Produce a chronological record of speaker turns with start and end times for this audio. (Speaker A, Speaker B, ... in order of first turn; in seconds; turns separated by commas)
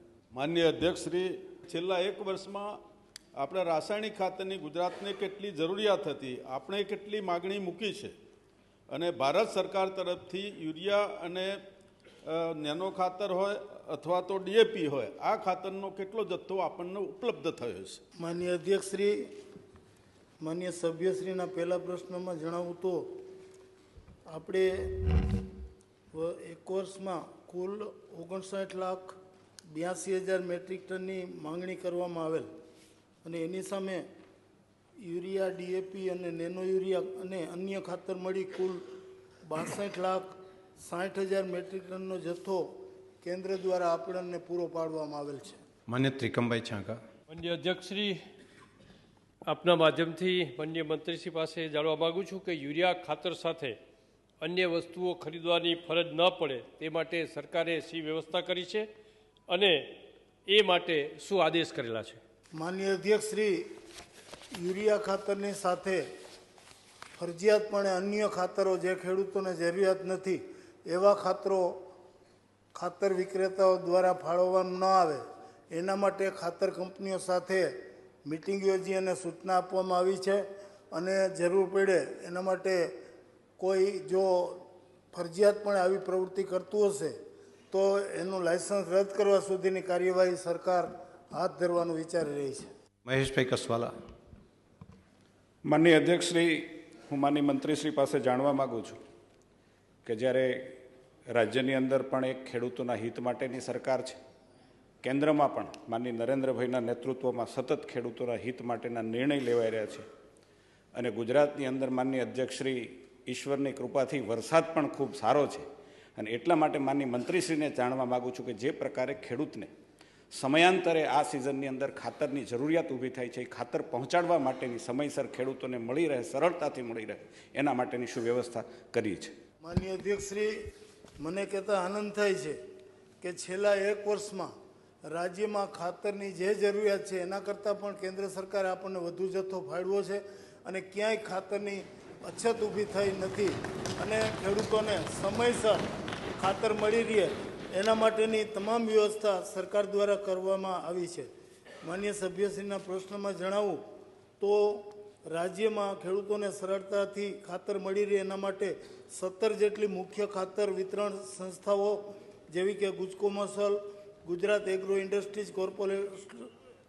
Speaker A: 0.3-2.8, Speaker A: 3.4-8.2, Speaker A: 8.9-11.6, Speaker A: 12.2-18.0, Speaker B: 18.2-19.3, Speaker B: 20.4-23.2, Speaker B: 24.3-25.2, Speaker B: 26.1-29.2, Speaker B: 29.7-32.5, Speaker B: 33.2-34.1, Speaker B: 35.0-38.8, Speaker B: 39.5-45.6, Speaker C: 45.9-47.0, Speaker D: 47.3-48.2, Speaker D: 49.5-53.8, Speaker D: 54.4-58.9, Speaker D: 59.5-59.8, Speaker D: 60.5-62.2, Speaker B: 62.5-63.7, Speaker B: 64.5-66.1, Speaker B: 67.2-71.8, Speaker B: 72.7-77.7, Speaker B: 78.2-82.9, Speaker B: 83.6-87.2, Speaker B: 87.7-92.7, Speaker C: 93.1-93.9, Speaker E: 95.7-99.0, Speaker E: 100.0-100.7, Speaker E: 101.3-104.2, Speaker E: 105.0-110.0, Speaker E: 111.0-115.7, Speaker E: 116.2-119.7, Speaker E: 120.3-129.3, Speaker B: 129.6-130.5, Speaker B: 131.2-132.6, Speaker B: 133.2-134.5, Speaker B: 135.1-145.8, Speaker B: 146.3-151.3, Speaker B: 151.8-153.8, Speaker B: 154.4-166.5